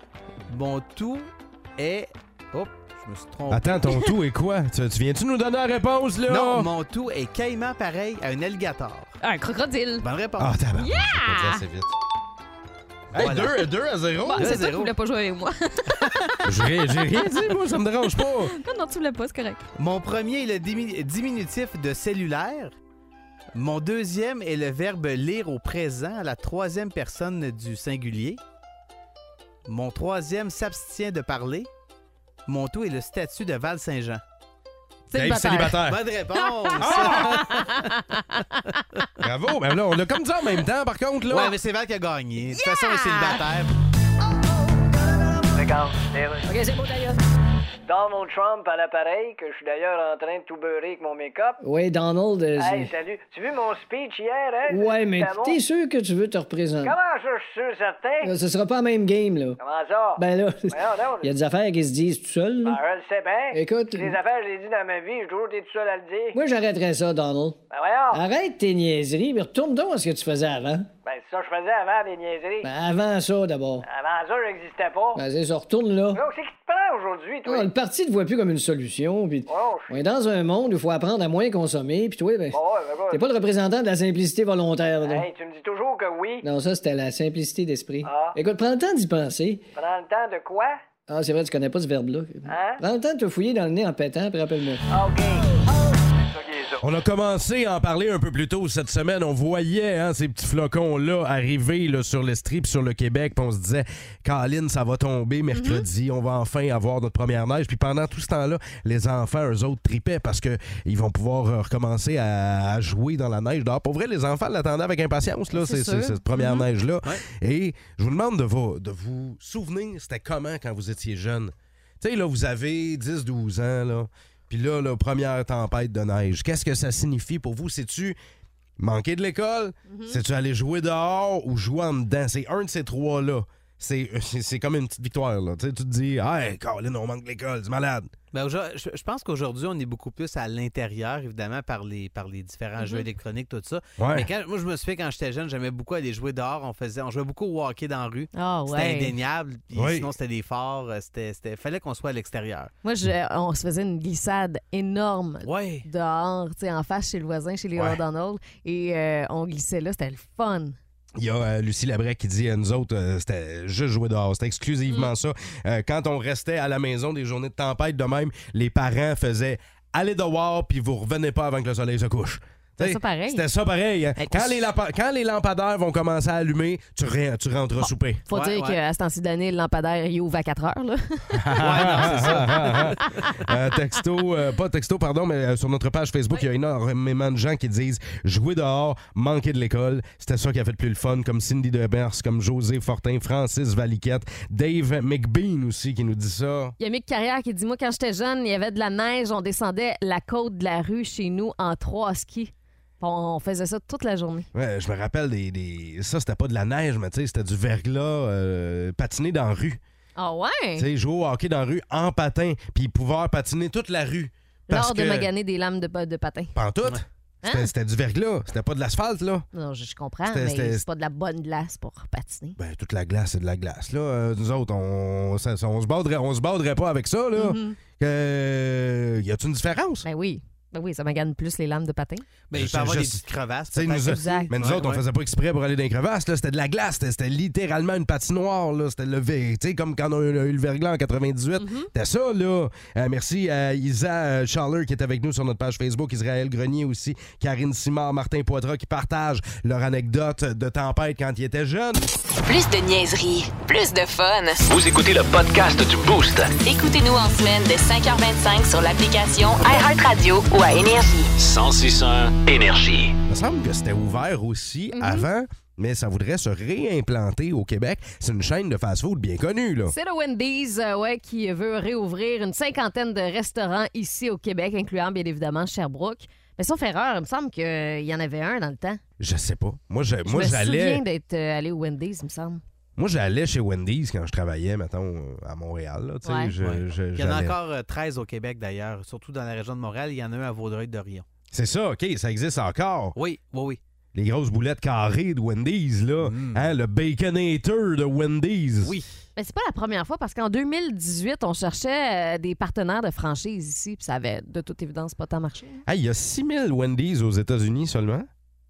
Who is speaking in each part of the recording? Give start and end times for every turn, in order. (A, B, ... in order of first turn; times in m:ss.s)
0:00.5-0:03.9 A
0:03.5-0:06.7 B
0:06.3-0:09.2 A
0:09.2-0:10.0 C
0:10.0-0:10.6 A
0:10.4-0:11.9 B
0:10.8-0:11.6 C
0:13.1-0:14.5 B
0:13.1-0:13.7 A
0:14.2-0:17.3 C
0:14.3-0:14.9 A
0:16.4-0:18.5 B
0:18.1-0:19.6 C
0:19.8-0:22.7 A
0:23.5-0:28.4 A
0:29.7-0:31.7 A
0:32.5-0:34.2 A
0:35.1-0:35.8 C
0:35.1-0:36.0 B
0:35.9-0:37.8 A
0:36.4-0:39.0 C
0:36.8-0:37.5 B
0:39.2-0:41.6 B
0:41.3-0:43.7 A
0:42.5-0:43.4 C
0:45.5-0:46.5 D
0:47.9-0:51.6 D
0:51.6-0:52.9 E
0:52.6-0:55.6 D
0:54.7-0:57.0 E
0:56.8-0:58.3 D
0:58.2-0:59.6 E
0:59.6-1:01.3 D
1:00.2-1:02.8 E
1:02.6-1:06.4 D
1:03.5-1:04.2 E
1:06.3-1:07.6 E
1:07.7-1:08.2 D
1:08.1-1:10.9 E
1:11.0-1:12.7 D
1:12.6-1:13.8 E
1:13.8-1:15.2 D
1:15.2-1:16.2 E
1:16.1-1:17.7 D
1:17.5-1:22.6 E
1:19.5-1:20.0 D
1:22.5-1:23.2 D
1:23.1-1:25.2 E
1:25.0-1:26.5 D
1:26.4-1:29.6 E
1:28.0-1:28.4 D
1:29.8-1:30.8 D
1:31.1-1:34.8 E
1:32.5-1:32.8 D
1:34.9-1:36.8 D
1:36.8-2:08.2 B
1:45.5-1:45.9 C
1:55.5-1:56.6 C
2:08.8-2:18.1 B
2:09.9-2:10.2 C
2:18.3-2:32.7 A
2:22.8-2:23.0 C
2:24.0-2:24.3 B
2:28.3-2:29.1 C
2:29.8-2:30.1 B
2:32.8-2:40.8 C
2:35.4-2:35.9 A
2:41.2-2:58.2 B
2:52.8-2:53.4 C
2:54.2-2:54.6 C
2:58.3-3:03.5 C
2:58.3-2:58.8 A
3:01.4-3:16.8 B
3:01.6-3:03.3 A
3:16.8-3:24.5 C
3:24.5-3:29.8 B
3:30.2-3:30.9 C
3:30.8-3:35.3 B
3:34.7-3:36.5 C
3:36.5-3:39.5 B
3:37.4-3:37.7 C
3:39.5-3:42.6 C
3:40.2-3:40.8 B
3:42.6-3:50.0 B
3:47.4-3:47.8 C
3:50.0-3:52.2 C
3:52.5-3:55.0 A
3:52.5-4:12.0 B
3:54.0-3:54.5 C
4:01.6-4:01.9 C
4:12.4-4:14.6 F
4:14.6-4:16.6 G
4:16.6-4:21.3 F
4:21.4-4:23.1 G
4:23.3-4:30.0 B
4:24.9-4:25.3 C
4:29.9-4:39.0 C
4:39.2-4:41.0 B
4:40.2-4:42.6 C
4:43.0-4:47.6 B
4:46.2-4:46.5 C
4:46.6-4:51.2 A
4:51.5-4:53.2 B
4:53.2-4:53.8 A
4:54.1-4:59.0 B
4:56.2-4:56.7 A
4:58.8-4:59.1 A
4:59.4-5:05.8 C
5:05.9-5:08.3 B